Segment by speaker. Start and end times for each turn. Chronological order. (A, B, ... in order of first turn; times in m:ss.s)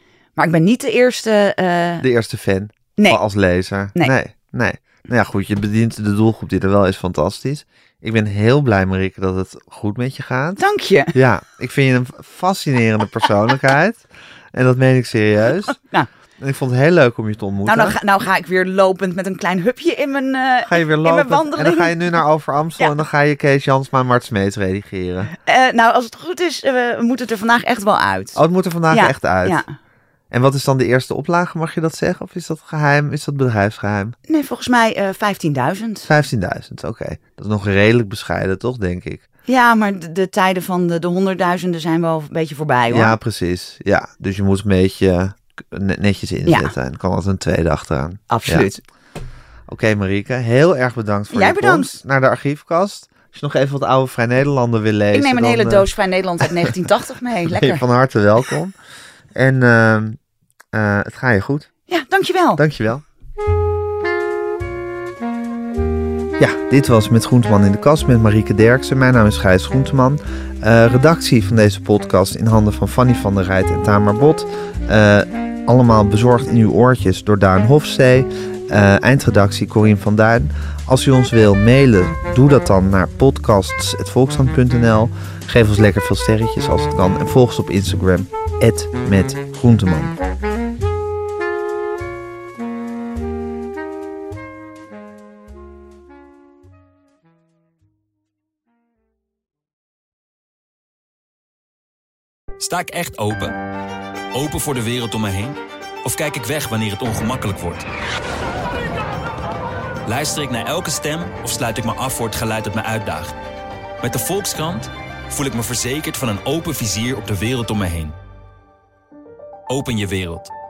0:00.4-0:02.1 A
0:02.0-0:10.6 B
0:10.6-0:11.2 A
0:11.1-0:15.8 B
0:15.7-0:16.1 A
0:16.4-0:18.0 B
0:17.6-0:22.0 A
0:20.6-0:25.3 B
0:25.4-0:28.4 A
0:28.4-0:29.6 B
0:28.9-0:29.7 A
0:30.3-0:34.2 B
0:34.3-0:36.1 A
0:36.1-0:39.2 B
0:39.5-0:43.2 A
0:42.9-0:48.7 B
0:46.5-0:46.7 A
0:48.3-0:48.8 A
0:49.7-0:55.9 B
0:51.3-0:52.0 A
0:55.1-0:57.8 A
0:56.4-0:56.7 B
0:57.5-0:58.8 B
0:59.4-1:00.2 B
1:00.7-1:01.7 B
1:01.9-1:02.6 A
1:02.6-1:03.0 B
1:06.4-1:30.2 B
1:42.6-1:43.6 C
1:44.3-1:47.9 C
1:50.1-1:53.3 C
1:54.0-1:58.2 C
1:59.7-2:00.5 C